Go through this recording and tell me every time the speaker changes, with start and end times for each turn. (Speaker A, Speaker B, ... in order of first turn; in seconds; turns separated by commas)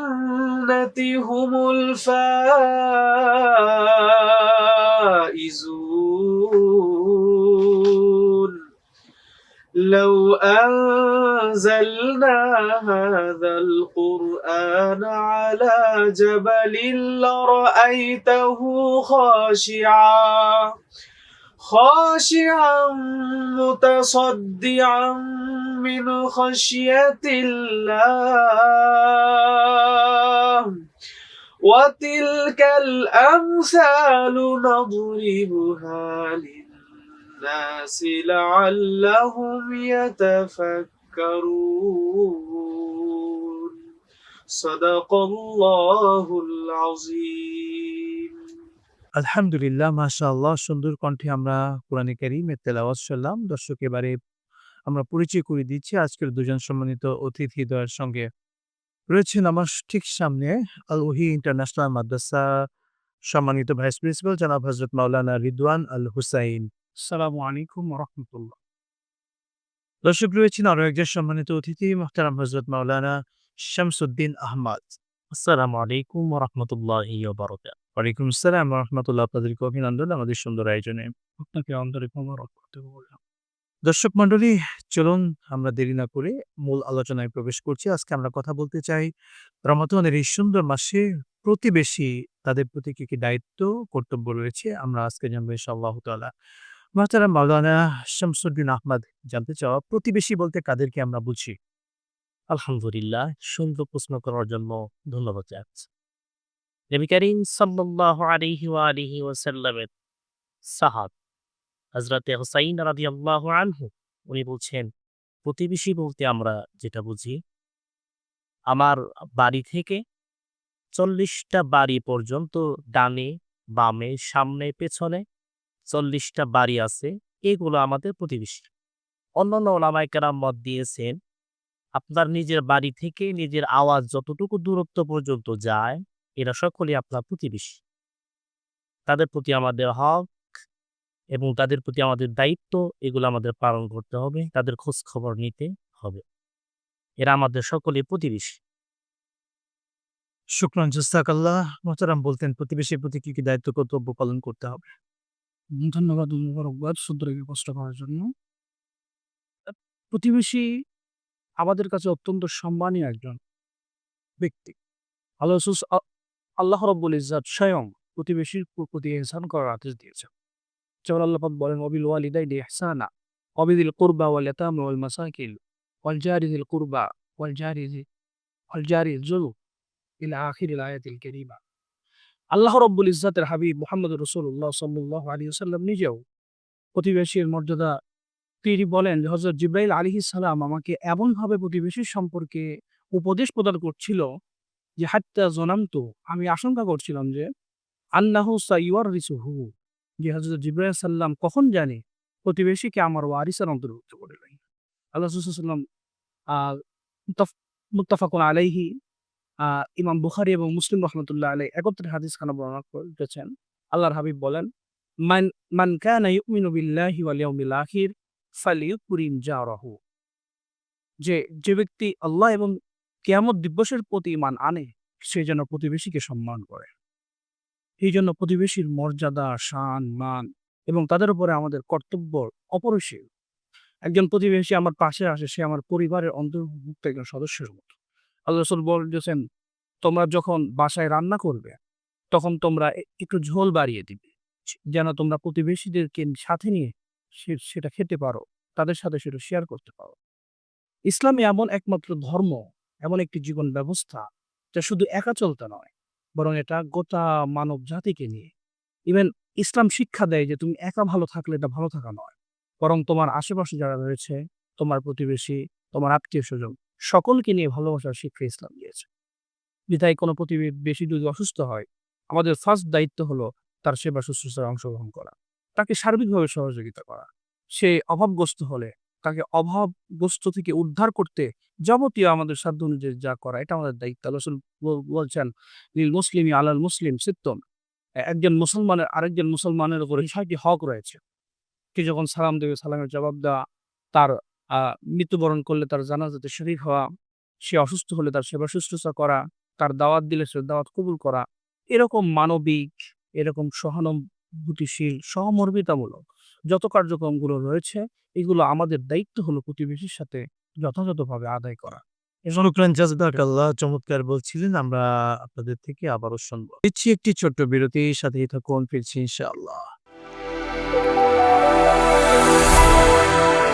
Speaker A: 0.7-3.1, Speaker A: 5.4-7.2, Speaker A: 9.9-20.4, Speaker A: 21.7-23.0, Speaker A: 23.6-25.2, Speaker A: 25.8-29.1, Speaker A: 31.7-36.6, Speaker A: 37.5-42.0, Speaker A: 44.6-47.8, Speaker B: 49.2-54.1, Speaker B: 54.9-58.2, Speaker B: 59.1-62.4, Speaker B: 63.3-66.7, Speaker C: 67.1-68.5, Speaker B: 70.0-73.1, Speaker B: 73.7-75.0, Speaker D: 75.3-77.7, Speaker B: 78.0-81.1, Speaker C: 81.4-83.2, Speaker B: 83.9-89.1, Speaker B: 89.7-96.3, Speaker B: 97.0-101.5, Speaker D: 102.5-105.9, Speaker D: 106.9-109.9, Speaker D: 110.7-111.1, Speaker D: 112.0-114.8, Speaker D: 115.4-117.4, Speaker D: 118.7-120.0, Speaker D: 121.0-125.2, Speaker D: 125.9-128.7, Speaker D: 129.4-131.1, Speaker D: 132.0-137.8, Speaker D: 139.1-140.2, Speaker D: 141.3-146.2, Speaker D: 147.2-148.6, Speaker B: 150.6-154.9, Speaker C: 155.8-158.3, Speaker C: 159.7-160.6, Speaker C: 161.6-163.4, Speaker C: 164.4-164.8, Speaker C: 165.4-166.0, Speaker C: 166.6-170.3, Speaker C: 171.1-173.1, Speaker C: 173.6-178.0, Speaker C: 178.7-179.5, Speaker C: 180.2-181.6, Speaker C: 182.5-186.2, Speaker C: 186.9-187.9, Speaker C: 188.6-194.2, Speaker C: 195.0-197.4, Speaker C: 198.2-204.6, Speaker C: 205.2-205.8, Speaker C: 207.3-208.9, Speaker C: 209.6-214.7, Speaker C: 215.2-220.0, Speaker C: 221.2-222.7, Speaker C: 223.3-226.9, Speaker C: 228.0-233.2, Speaker C: 234.1-237.9, Speaker C: 238.5-239.4, Speaker C: 240.0-241.8, Speaker C: 242.3-250.2, Speaker C: 251.1-254.2, Speaker C: 254.8-258.5, Speaker C: 259.1-269.1, Speaker C: 269.9-287.6, Speaker C: 288.3-291.2, Speaker C: 291.9-293.5, Speaker C: 294.1-297.0, Speaker C: 297.7-302.8, Speaker C: 303.4-312.0, Speaker B: 312.5-319.8